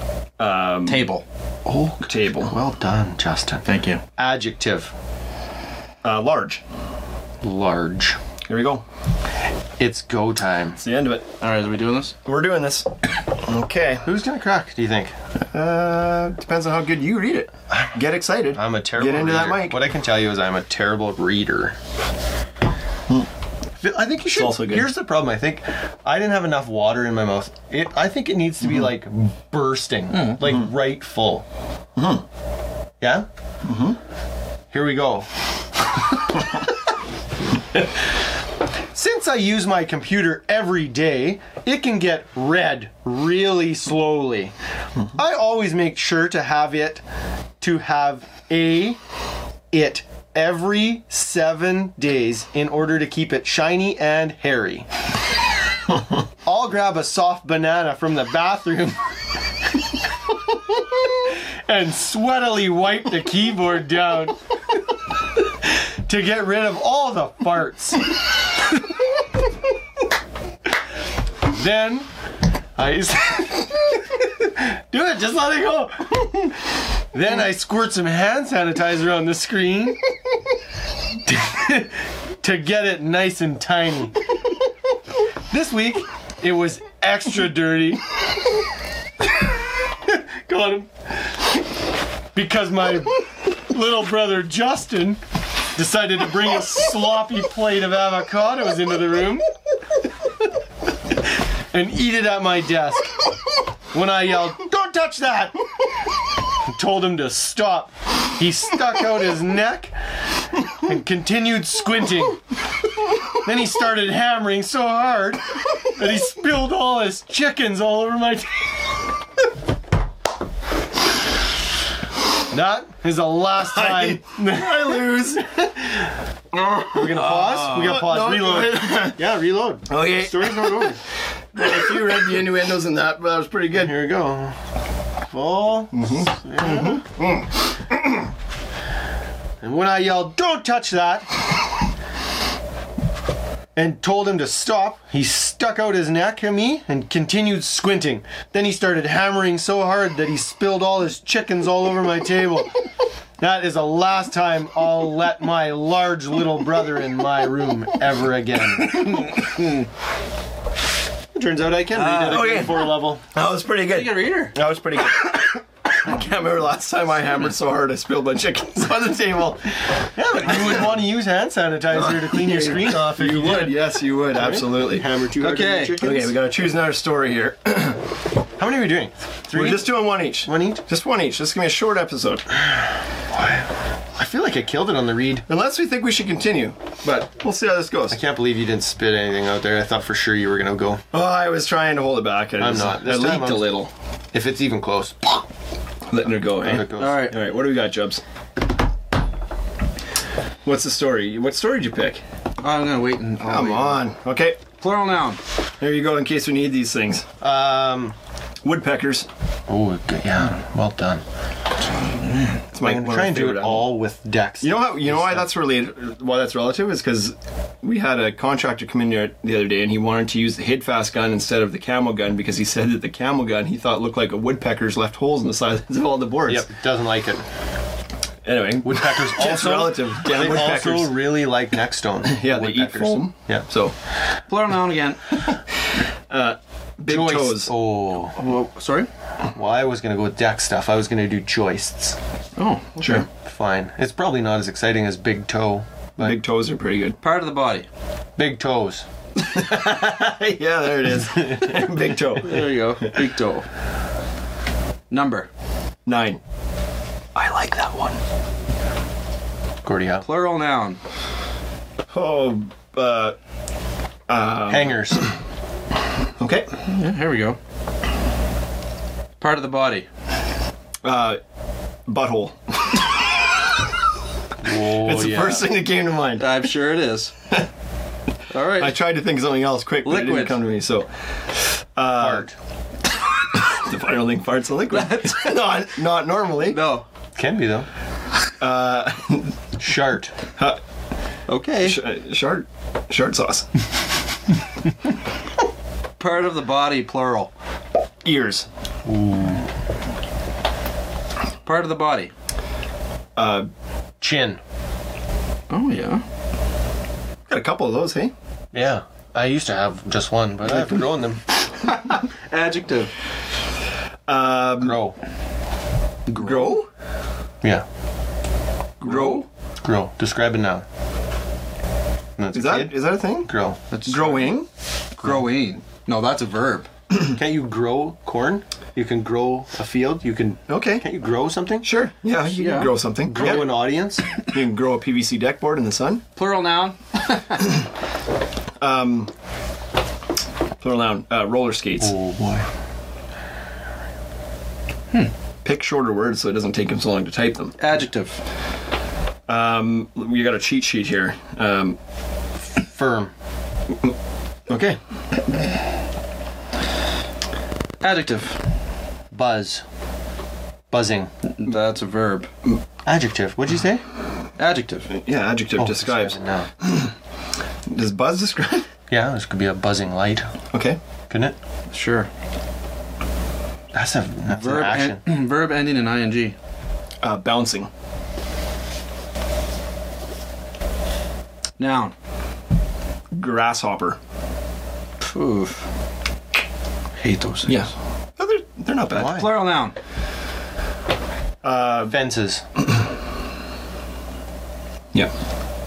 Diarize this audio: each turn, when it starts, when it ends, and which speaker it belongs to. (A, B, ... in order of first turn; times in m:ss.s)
0:00.4-0:01.0 A
0:00.9-0:01.2 B
0:01.7-0:03.6 C
0:02.0-0:02.6 A
0:03.6-0:04.0 B
0:04.2-0:04.9 C
0:06.0-0:06.6 A
0:07.4-0:08.2 C
0:08.5-0:08.8 A
0:09.8-0:10.8 C
0:10.8-0:11.3 A
0:11.4-0:12.2 B
0:12.2-0:14.1 A
0:14.0-0:15.1 C
0:15.5-0:19.8 A
0:18.5-0:21.8 C
0:23.8-0:31.4 C
0:24.3-0:24.9 A
0:30.2-0:30.4 B
0:32.0-0:32.2 A
0:33.0-0:33.3 C
0:33.6-0:34.0 A
0:34.7-0:35.3 C
0:38.9-0:44.5 C
0:45.1-0:47.0 C
0:47.6-0:49.0 C
0:49.7-0:54.9 C
0:56.4-0:59.1 C
1:00.7-1:04.4 C
1:06.0-1:08.1 C
1:11.5-1:12.1 C
1:12.8-1:16.6 C
1:17.1-1:20.0 C
1:21.2-1:24.2 C
1:25.5-1:28.0 C
1:30.0-1:30.9 C
1:32.3-1:35.2 C
1:35.8-1:39.5 C
1:41.7-1:43.2 C
1:43.9-1:45.6 C
1:46.7-1:49.9 C
1:50.6-1:52.4 C
1:53.4-1:58.7 C
2:02.5-2:06.1 C
2:03.6-2:05.5 A
2:06.5-2:09.2 A
2:06.9-2:11.0 C
2:09.9-2:11.0 A
2:11.5-2:13.9 A
2:13.8-2:14.6 C
2:15.3-2:17.1 C
2:15.9-2:17.5 A
2:19.6-2:21.4 C
2:23.8-2:32.8 C
2:33.4-2:39.4 C
2:39.2-2:39.5 B
2:41.3-2:43.2 C
2:41.9-2:42.8 B
2:42.3-2:49.7 A
2:43.9-2:44.5 B
2:50.0-2:56.3 C
2:52.1-2:55.1 A
2:55.4-2:56.1 B
2:56.0-2:58.0 A
2:58.6-3:00.8 C
2:59.5-3:02.5 A
3:03.3-3:03.6 C
3:04.2-3:05.4 C
3:05.5-3:08.2 A
3:08.1-3:11.0 C
3:11.1-3:13.9 A
3:12.6-3:13.7 C
3:14.3-3:15.5 C
3:16.1-3:18.2 A
3:16.5-3:17.3 C
3:17.0-3:17.4 B
3:20.6-3:22.2 A
3:22.6-3:24.0 B
3:23.4-3:24.6 A
3:24.8-3:25.4 B
3:25.8-3:27.3 A
3:27.4-3:28.2 C
3:28.6-3:29.3 A
3:29.7-3:31.2 C
3:32.0-3:32.6 B
3:32.7-3:33.9 A
3:32.8-3:35.5 C
3:34.6-3:46.7 A
3:46.5-3:47.4 C
3:48.4-3:51.2 A
3:48.8-3:53.6 C
3:52.2-3:53.9 A
3:54.5-3:55.5 B
3:56.3-3:57.7 A
3:57.1-3:58.4 C
3:58.4-3:59.1 B
3:59.6-4:02.2 C
4:02.6-4:03.3 B
4:03.0-4:03.3 A
4:03.4-4:06.4 C
4:06.2-4:07.2 A
4:07.2-4:07.9 B
4:08.4-4:09.1 C
4:09.4-4:13.2 A
4:11.3-4:11.9 C
4:12.4-4:13.7 B
4:15.1-4:15.5 B
4:16.1-4:16.4 A
4:17.4-4:18.2 A
4:19.8-4:20.2 C
4:20.2-4:21.0 B
4:22.1-4:23.4 A
4:24.3-4:25.0 A
4:24.7-4:25.2 C
4:26.4-4:26.7 A
4:26.9-4:27.6 B
4:29.4-4:30.1 B
4:31.0-4:31.4 A
4:32.1-4:33.1 A
4:34.6-4:35.7 C
4:35.0-4:36.5 A
4:36.4-4:37.3 B
4:38.5-4:39.0 B
4:38.8-4:42.5 A
4:40.0-4:40.6 B
4:42.2-4:42.5 C
4:43.5-4:46.8 A
4:44.9-4:45.8 B
4:46.6-4:47.0 B
4:47.4-4:47.9 C
4:48.6-4:49.6 A
4:49.8-4:50.3 C
4:51.5-4:52.0 B
4:51.8-4:53.7 A
4:56.2-4:57.5 B
4:58.2-4:58.7 A
4:59.0-4:59.7 C
5:01.6-5:02.3 B
5:03.4-5:03.7 A
5:04.2-5:04.6 C
5:05.7-5:06.2 B
5:07.5-5:08.3 A
5:08.7-5:11.4 C
5:11.8-5:13.1 B
5:14.3-5:15.0 A
5:14.8-5:15.2 C
5:16.3-5:16.8 B
5:16.3-5:16.9 A
5:19.0-5:19.4 B
5:19.0-5:19.5 A
5:19.8-5:20.8 C
5:22.4-5:23.8 C
5:22.5-5:23.5 A
5:23.9-5:24.6 B
5:24.1-5:24.7 A
5:25.2-5:26.9 B
5:27.3-5:31.9 C
5:30.7-5:31.0 A
5:31.8-5:33.6 A
5:32.6-5:33.7 B
5:33.3-5:34.2 C
5:34.5-5:36.2 A
5:36.4-5:37.8 B
5:38.8-5:39.3 A
5:40.8-5:42.1 A
5:42.0-5:42.7 C
5:45.6-5:47.8 A
5:47.8-5:48.4 B
5:49.5-5:52.0 A
5:52.8-5:53.3 C
5:54.7-5:55.0 A
5:58.0-5:58.6 B
5:59.3-5:59.8 C
6:00.9-6:01.3 C
6:01.5-6:02.5 B
6:03.0-6:04.0 C
6:04.6-6:05.1 B
6:05.1-6:07.1 A
6:05.8-6:06.7 C
6:07.9-6:08.9 A
6:09.1-6:10.5 C
6:10.7-6:11.0 A
6:11.3-6:11.6 C
6:11.9-6:12.3 B
6:13.9-6:15.2 C
6:14.5-6:16.6 B
6:17.2-6:17.9 A
6:21.8-6:22.1 B
6:23.3-6:24.2 A
6:25.2-6:25.8 B
6:27.2-6:27.8 B
6:27.7-6:29.5 A
6:29.1-6:29.5 C
6:29.2-6:30.0 B
6:31.6-6:32.2 A
6:32.1-6:32.6 C